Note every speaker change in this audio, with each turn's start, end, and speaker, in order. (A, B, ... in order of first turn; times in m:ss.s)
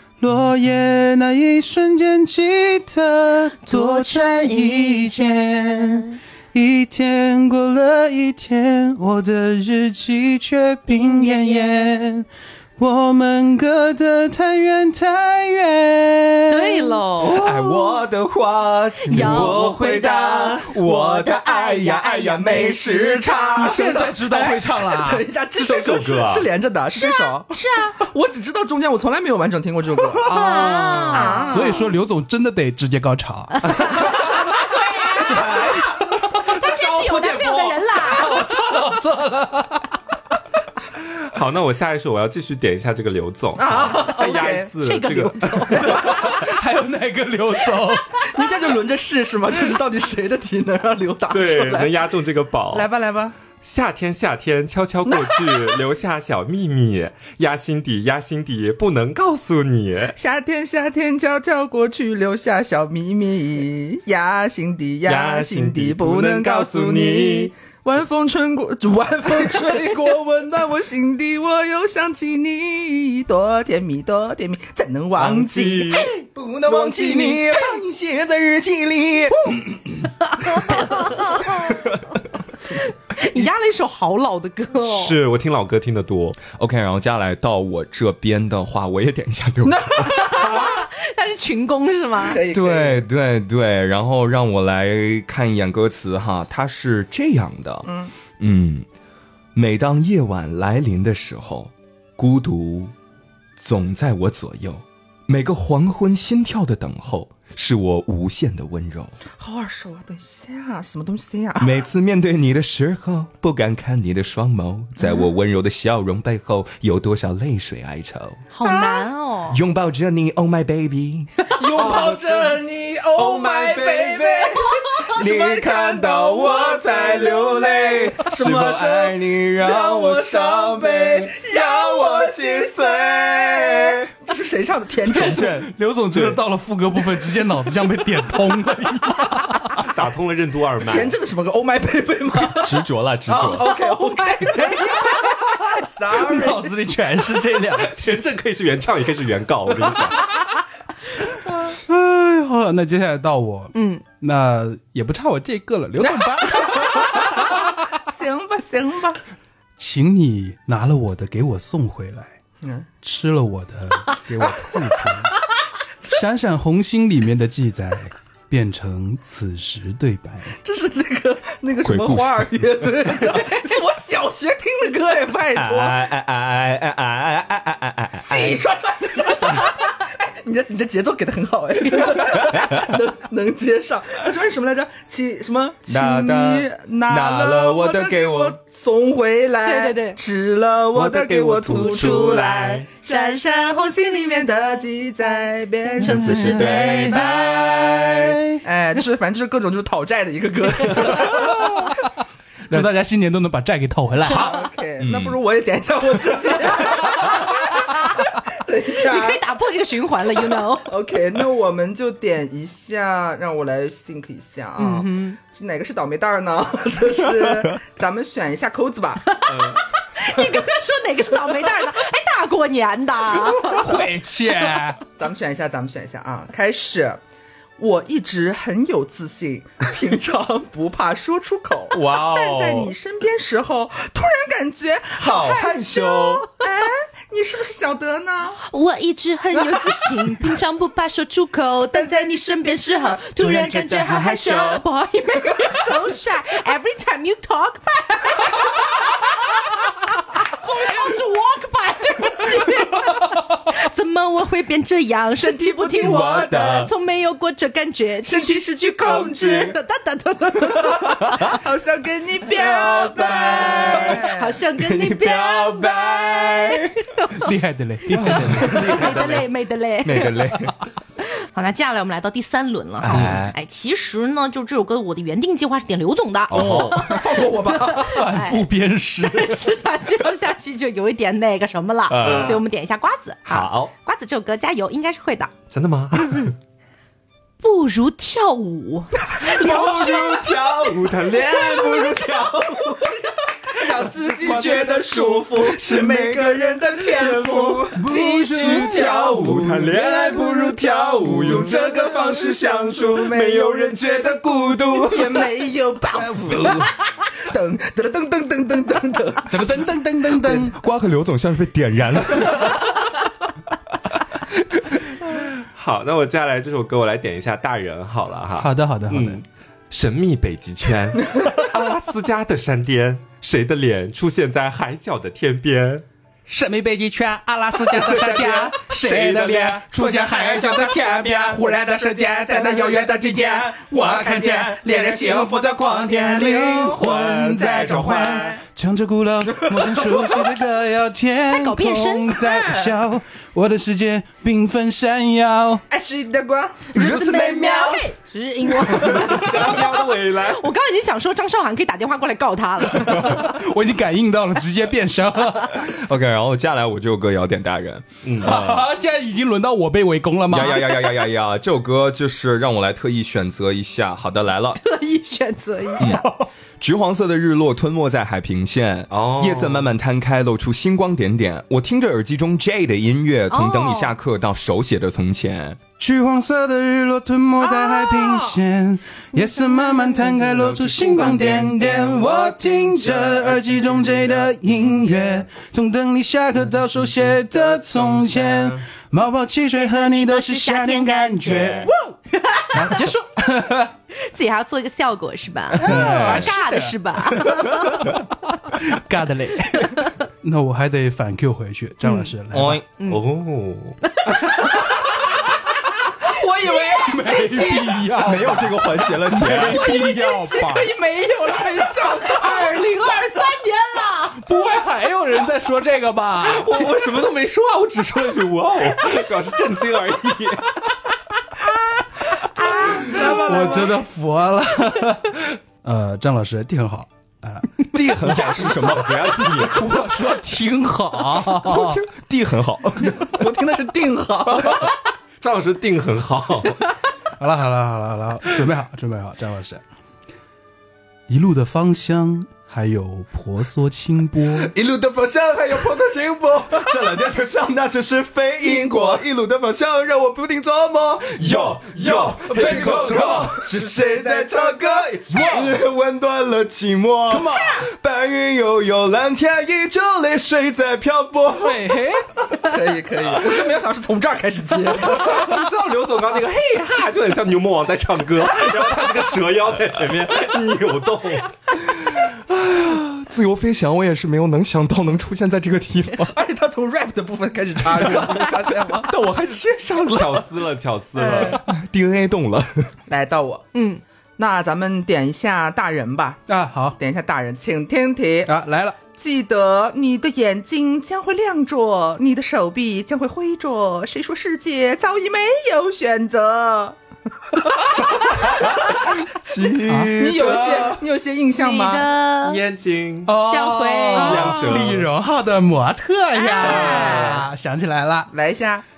0:00.2-0:17.0 A
0:03.6-0:06.2 B
0:16.5-0:17.8 B
0:17.2-0:23.5 C
0:19.0-0:22.8 B
0:19.3-0:20.5 D
0:22.4-0:31.8 D
0:23.6-0:25.3 A
0:25.6-0:26.5 E
0:27.0-0:28.0 B
0:30.2-0:31.9 B
0:30.4-0:34.2 A
0:33.6-0:35.6 B
0:35.2-0:35.8 D
0:35.3-0:36.5 A
0:36.4-0:38.4 B
0:36.6-0:37.7 D
0:38.0-0:40.0 A
0:41.3-0:46.4 E
0:43.6-0:44.7 D
0:44.8-0:46.2 B
0:45.8-0:48.3 A
0:45.9-0:46.3 D
0:48.2-0:52.0 D
0:51.3-0:52.9 E
0:52.7-0:53.4 D
0:53.6-1:00.2 E
0:55.2-0:55.8 D
1:00.2-1:16.1 D
1:05.0-1:07.5 E
1:15.2-1:16.1 E
1:15.9-1:22.0 C
1:16.7-1:17.6 D
1:20.4-1:21.8 B
1:22.7-1:25.2 B
1:24.8-1:26.4 E
1:26.4-1:30.4 C
1:29.6-1:30.7 D
1:30.0-1:32.4 B
1:32.3-1:33.0 D
1:32.4-1:38.9 C
1:37.9-1:38.1 D
1:39.6-1:42.9 C
1:43.6-1:49.2 C
1:49.4-1:51.8 D
1:51.6-1:58.4 C
1:58.5-1:59.6 B
1:58.6-1:59.1 D
1:59.5-2:01.3 C
2:01.5-2:15.6 D
2:01.7-2:02.6 E
2:03.1-2:04.6 E
2:05.0-2:14.1 C
2:15.1-2:19.9 A
2:15.1-2:16.4 C
2:19.8-2:21.2 E
2:20.8-2:26.8 D
2:22.6-2:23.7 C
2:23.6-2:25.0 B
2:26.1-2:28.1 A
2:27.8-2:30.2 E
2:31.7-2:37.5 A
2:33.7-2:34.0 B
2:36.0-2:39.2 D
2:39.8-2:42.3 A
2:42.6-2:42.9 D
2:43.0-2:45.4 A
2:46.0-2:50.6 A
2:50.6-2:56.0 D
2:51.8-2:52.7 C
2:55.5-2:58.6 C
2:58.2-3:17.8 D
3:02.4-3:02.8 C
3:05.9-3:08.6 C
3:09.6-3:10.2 B
3:10.9-3:12.9 E
3:11.7-3:12.6 B
3:16.0-3:17.2 A
3:16.0-3:17.0 B
3:16.2-3:18.4 C
3:18.1-3:18.6 A
3:18.6-3:21.9 D
3:22.7-3:24.5 A
3:24.2-3:29.4 D
3:25.0-3:25.4 C
3:29.0-3:30.9 B
3:30.8-3:39.3 D
3:34.8-3:35.4 B
3:39.3-3:44.0 B
3:39.5-3:39.8 E
3:43.5-3:45.0 A
3:45.2-3:47.2 D
3:47.8-3:58.6 D
3:51.9-3:52.9 C
3:55.2-3:56.5 C
3:58.6-4:21.6 B
3:59.6-4:00.2 D
4:01.9-4:03.4 D
4:03.4-4:04.8 C
4:05.5-4:05.9 D
4:15.4-4:16.7 D
4:15.9-4:16.9 C
4:18.2-4:19.8 D
4:20.8-4:24.6 D
4:22.5-4:26.9 C
4:23.3-4:27.5 B
4:27.4-4:28.9 A
4:28.1-4:29.4 C
4:28.4-4:29.4 E
4:28.4-4:30.5 B
4:30.0-4:30.8 C
4:31.2-4:38.7 B
4:33.0-4:33.6 C
4:33.1-4:33.4 E
4:36.5-4:37.1 C
4:36.5-4:37.0 E
4:36.6-4:38.3 D
4:38.0-4:39.7 A
4:39.2-4:45.5 B
4:42.1-4:42.6 C
4:42.2-4:42.6 E
4:43.5-4:43.9 E
4:45.7-4:46.5 E
4:47.6-4:50.4 B
4:49.2-4:49.8 D
4:49.4-4:53.0 E
4:50.5-4:51.0 C
4:53.7-4:59.6 D
4:54.2-4:57.8 C
4:57.2-4:57.9 E
4:57.9-5:01.6 A
4:58.8-5:01.7 C
4:59.2-5:05.5 E
5:01.2-5:04.0 D
5:04.9-5:07.0 D
5:06.2-5:06.9 C
5:07.5-5:09.8 D
5:09.5-5:10.7 A
5:10.4-5:12.9 C
5:15.6-5:26.0 E
5:18.6-5:19.4 A
5:26.5-5:45.8 A
5:28.3-5:29.8 E
5:36.3-5:37.1 D
5:37.0-5:38.6 E
5:41.5-5:42.5 B
5:42.5-5:42.9 D
5:45.9-5:47.0 D
5:46.9-5:53.4 B
5:47.0-5:48.1 C
5:48.9-5:50.7 E
5:52.9-5:55.9 A
5:55.7-5:58.9 C
5:58.2-5:58.6 E
5:58.4-6:01.0 A
6:00.5-6:04.8 C
6:04.8-6:06.3 B
6:06.0-6:06.3 C
6:06.0-6:06.4 A
6:06.8-6:15.8 C
6:09.1-6:09.9 E
6:13.5-6:14.1 B
6:16.0-6:32.2 A
6:17.6-6:18.6 D
6:20.8-6:21.9 C
6:27.6-6:28.8 E
6:29.8-6:33.1 B
6:31.5-6:31.9 E
6:32.7-6:33.9 A
6:34.2-6:38.2 B
6:35.8-6:36.5 C
6:35.8-6:42.8 A
6:42.0-6:42.3 B
6:42.5-6:42.8 C
6:43.0-6:44.0 E
6:44.0-6:44.6 B
6:46.2-6:48.1 D
6:46.8-6:50.9 A
6:48.2-6:50.0 C
6:49.7-6:53.3 D
6:52.4-6:54.4 B
6:54.4-6:56.9 A
6:56.4-7:00.8 E
7:02.6-7:03.1 B
7:02.8-7:04.0 D
7:03.2-7:08.6 A
7:07.9-7:09.8 C
7:08.5-7:09.8 E
7:09.7-7:12.0 A
7:11.6-7:13.4 C
7:13.1-7:14.9 D
7:14.7-7:16.8 E
7:17.4-7:19.8 A
7:21.3-7:24.7 A
7:24.6-7:42.0 C
7:31.4-7:33.5 E
7:32.5-7:33.4 A
7:32.6-7:35.0 D
7:35.3-7:35.8 A
7:37.3-7:37.9 A
7:41.6-7:42.3 A
7:42.6-7:45.5 D
7:45.1-7:51.6 E
7:51.8-7:56.4 C
7:56.3-7:59.1 D
7:58.1-7:58.4 C
7:59.1-8:00.5 C
8:00.0-8:01.6 E
8:01.2-8:01.6 D
8:01.3-8:02.9 C
8:03.1-8:03.7 D
8:03.7-8:04.0 B
8:04.4-8:06.4 D
8:06.5-8:07.0 A
8:07.0-8:08.5 D
8:08.5-8:09.0 A
8:09.1-8:17.0 D
8:17.5-8:19.1 D
8:18.6-8:21.0 C
8:19.9-8:20.2 A
8:20.1-8:22.1 D
8:21.6-8:22.6 B
8:22.4-8:23.4 E
8:23.3-8:28.3 A
8:23.5-8:24.6 B
8:24.2-8:25.1 E
8:24.3-8:24.9 C
8:26.4-8:27.4 B
8:26.6-8:27.4 E
8:28.3-8:28.8 D